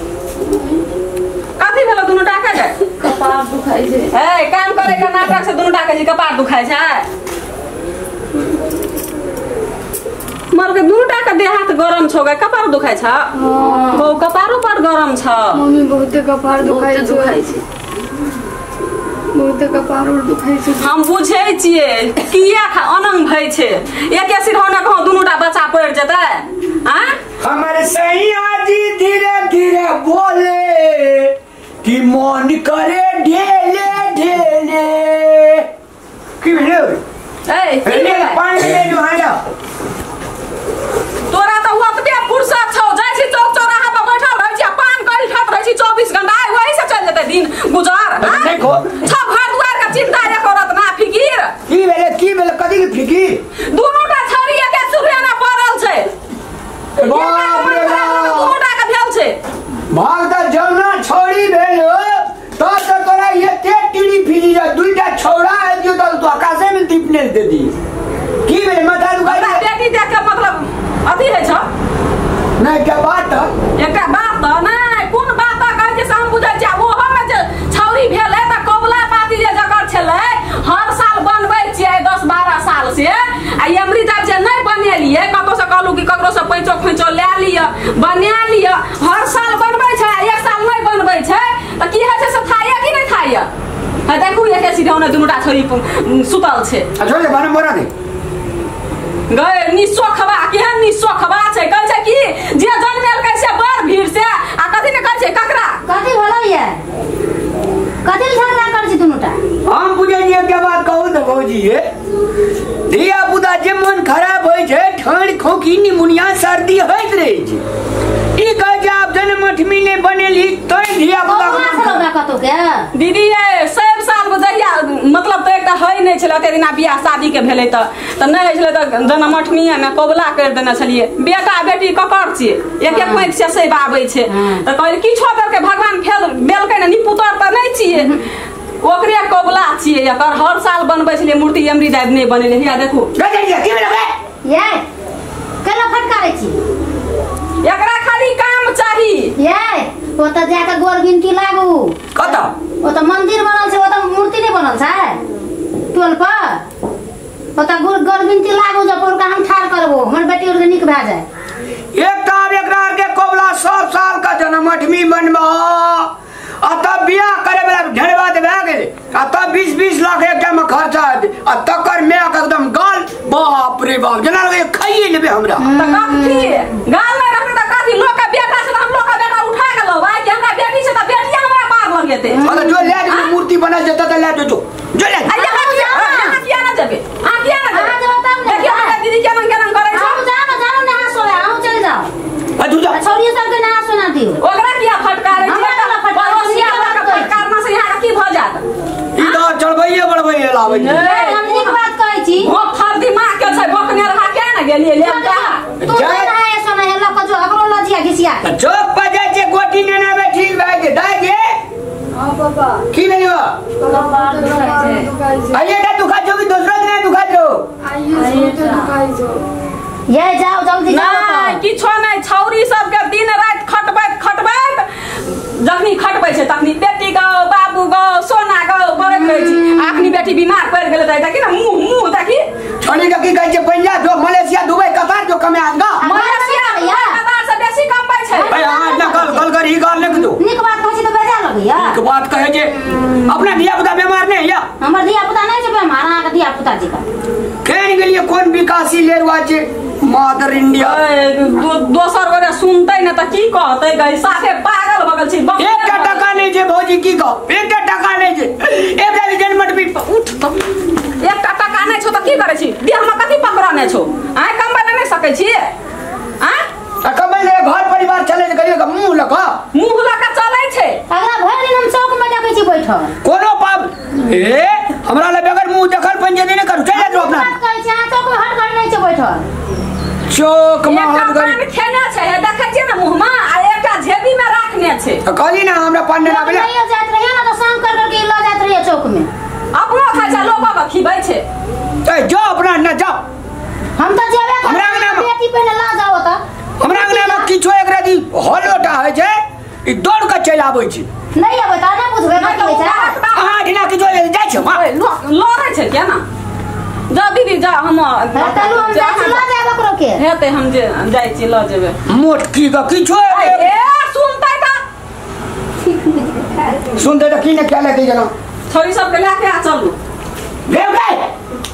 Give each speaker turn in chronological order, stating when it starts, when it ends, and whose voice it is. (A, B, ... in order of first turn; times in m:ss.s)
0:01.6-0:02.9 A
0:03.0-0:04.1 B
0:04.1-0:07.1 A
0:10.5-0:15.6 A
0:13.4-0:14.1 B
0:15.5-0:17.6 B
0:16.7-0:17.5 A
0:19.3-0:20.8 B
0:20.8-0:27.2 A
0:27.4-0:35.7 C
0:36.4-0:37.0 C
0:37.5-0:38.4 A
0:37.8-0:39.4 C
0:41.3-0:51.5 A
0:48.2-0:49.0 C
0:51.7-0:53.4 C
0:53.6-0:56.1 A
0:57.0-0:58.6 C
0:57.0-0:59.4 A
0:59.9-1:07.7 C
1:08.4-1:09.6 C
1:09.2-1:11.6 A
1:12.6-1:13.5 C
1:13.8-1:33.5 A
1:34.0-1:36.9 A
1:37.0-1:37.9 C
1:39.3-1:45.8 A
1:45.8-1:46.8 D
1:48.0-1:49.4 D
1:49.6-1:51.8 C
1:52.9-1:57.6 C
1:58.4-2:02.0 C
2:01.2-2:02.9 D
2:02.9-2:18.2 A
2:12.9-2:13.3 D
2:14.3-2:14.6 D
2:18.8-2:23.1 A
2:23.2-2:24.1 C
2:24.4-2:24.8 D
2:25.6-2:26.6 D
2:27.6-2:29.3 A
2:29.4-2:32.3 D
2:32.1-2:32.5 C
2:32.8-2:35.2 D
2:35.9-2:36.6 D
2:37.6-2:41.3 D
2:41.9-2:46.1 C
2:46.6-2:55.7 C
2:55.6-2:56.6 D
2:55.7-3:02.4 A
3:02.3-3:02.9 D
3:02.4-3:05.3 C
3:03.0-3:03.3 A
3:05.3-3:10.2 A
3:05.3-3:06.4 D
3:07.7-3:09.0 D
3:09.9-3:12.1 D
3:12.6-3:13.0 C
3:12.9-3:14.4 D
3:14.4-3:18.6 A
3:15.4-3:17.4 D
3:19.1-3:21.1 C
3:20.7-3:21.8 A
3:21.0-3:22.5 D
3:22.4-3:25.7 A
3:25.0-3:28.5 D
3:25.8-3:26.3 C
3:28.4-3:31.5 C
3:32.1-3:32.8 B
3:32.9-3:33.6 C
3:33.8-3:35.6 B
3:34.0-3:35.1 A
3:35.5-3:37.7 C
3:37.8-3:39.5 B
3:38.2-3:38.8 A
3:40.1-3:41.6 D
3:40.9-3:52.4 A
3:49.5-3:49.9 D
3:52.8-3:56.0 C
3:56.0-3:57.2 D
3:56.0-3:58.6 A
3:58.3-3:59.5 D
3:58.5-4:00.4 C
4:00.3-4:02.0 D
4:01.8-4:04.6 C
4:04.8-4:07.0 D
4:07.6-4:11.0 C
4:10.8-4:16.3 A
4:15.6-4:20.5 C
4:21.2-4:25.7 A
4:26.4-4:26.6 A
4:27.0-4:29.6 C
4:29.7-4:31.0 A
4:31.1-4:33.1 D
4:33.2-4:37.5 C
4:36.9-4:39.4 D
4:40.3-4:41.6 C
4:40.8-4:45.2 A
4:45.2-4:46.7 C
4:46.2-4:49.3 D
4:49.7-4:51.4 A
4:52.0-4:53.2 C
4:54.0-4:57.5 D
4:54.6-4:55.3 C
4:56.8-5:01.1 C
5:01.3-5:03.2 D
5:02.4-5:03.6 A
5:03.3-5:04.8 C
5:04.6-5:06.2 A
5:07.1-5:09.5 A
5:08.3-5:10.2 D
5:10.2-5:12.0 A
5:12.1-5:13.7 C
5:13.3-5:14.8 A
5:16.9-5:18.3 C
5:18.7-5:20.0 A
5:20.7-5:21.3 C